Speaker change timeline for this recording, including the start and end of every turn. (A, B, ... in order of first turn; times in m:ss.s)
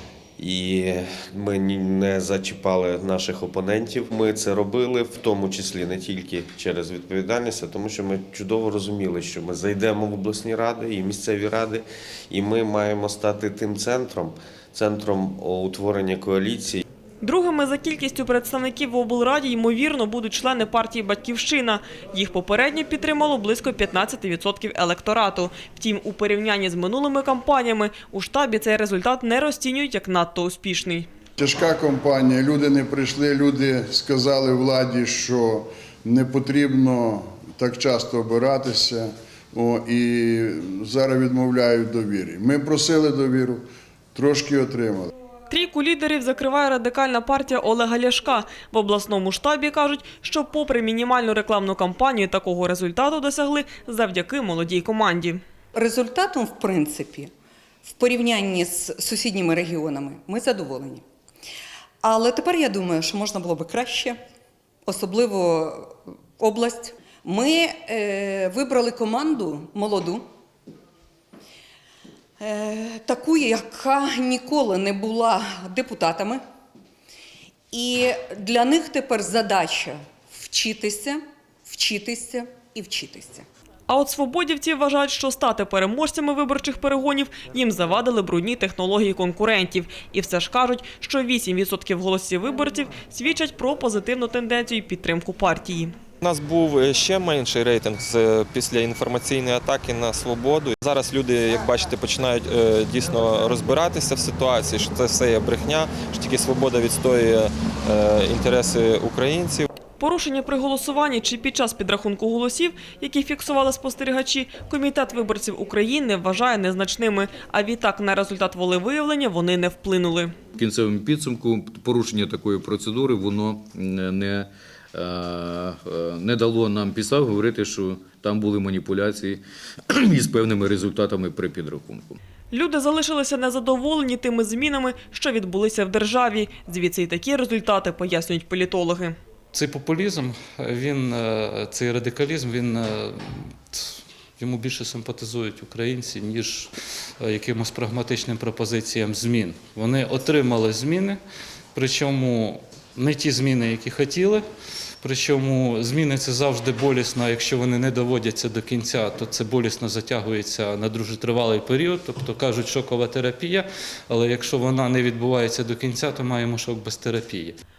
0:00.4-0:16.8 A
0:17.2-0:31.0 B
0:31.4-0:43.6 C
0:44.1-0:45.1 C
0:45.5-0:55.4 B
0:55.7-0:57.3 D
0:57.8-1:01.0 D
1:02.0-1:04.2 D
1:04.9-1:10.2 D
1:12.4-1:16.4 D
1:17.7-1:23.4 D
1:23.9-1:36.0 B
1:36.2-1:49.7 E
1:50.0-2:00.3 B
2:00.6-2:09.4 F
2:10.1-2:12.2 F
2:12.5-2:19.2 B
2:19.5-2:26.7 G
2:27.2-2:31.2 G
2:31.8-2:34.4 G
2:35.0-2:47.6 G